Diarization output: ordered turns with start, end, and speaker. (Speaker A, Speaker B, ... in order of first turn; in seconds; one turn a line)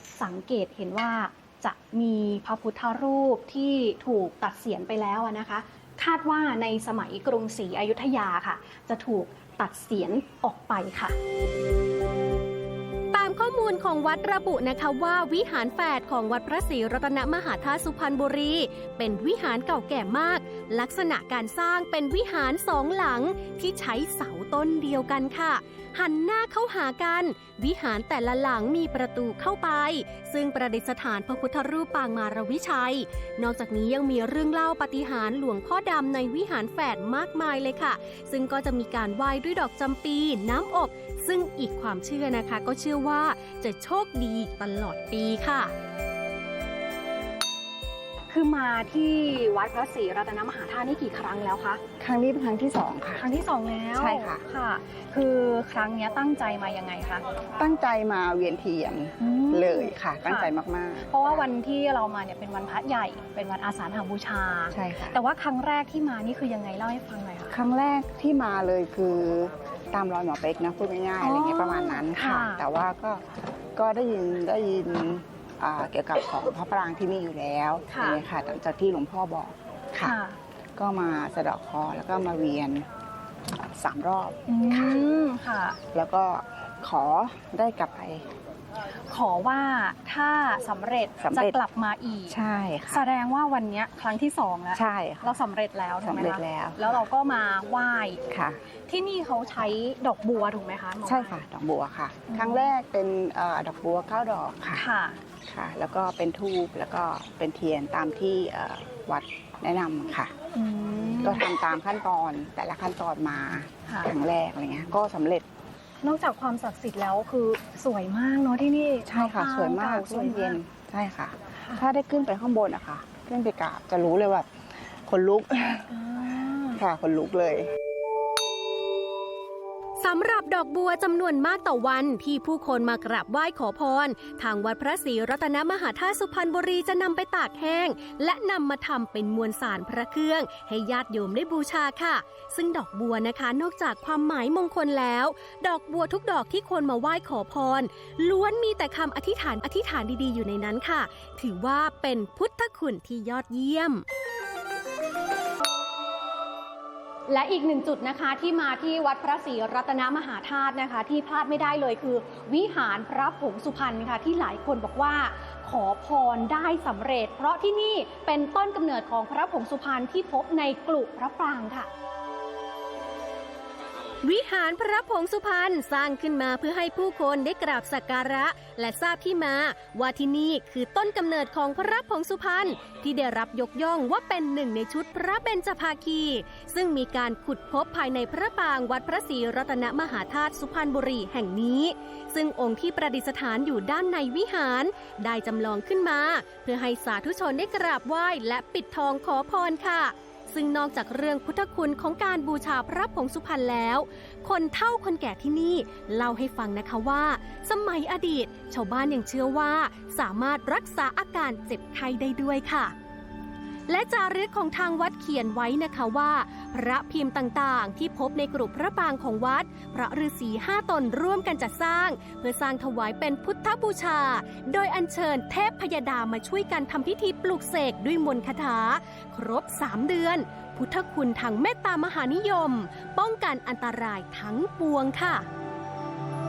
Speaker A: 0.2-11.1
Speaker B: 13.1-45.7
Speaker A: 48.3-51.8
Speaker C: 52.0-53.2
Speaker A: 53.2-57.2
Speaker C: 53.9-54.4
Speaker C: 57.6-61.5
Speaker A: 59.2-60.5
Speaker A: 61.0-67.5
Speaker C: 64.7-65.2
Speaker C: 67.5-73.2
Speaker A: 71.2-72.6
Speaker C: 73.8-80.2
Speaker A: 77.9-78.2
Speaker A: 80.0-80.4
Speaker C: 80.8-82.9
Speaker C: 83.5-85.0
Speaker A: 84.5-85.8
Speaker C: 85.9-88.3
Speaker A: 89.1-92.4
Speaker C: 91.2-91.6
Speaker C: 92.3-93.0
Speaker A: 92.9-98.2
Speaker C: 94.7-95.3
Speaker C: 96.0-97.0
Speaker C: 98.3-98.6
Speaker A: 98.9-101.4
Speaker C: 101.0-104.8
Speaker A: 102.3-102.7
Speaker A: 104.7-105.2
Speaker C: 105.5-110.3
Speaker A: 110.5-111.5
Speaker C: 111.2-115.5
Speaker A: 113.9-114.1
Speaker A: 116.0-120.6
Speaker C: 119.0-125.9
Speaker A: 125.9-126.8
Speaker C: 126.7-127.7
Speaker B: 130.0-154.0
Speaker A: 157.3-171.9
Speaker B: 174.2-212.9
Speaker B: 213.9-235.5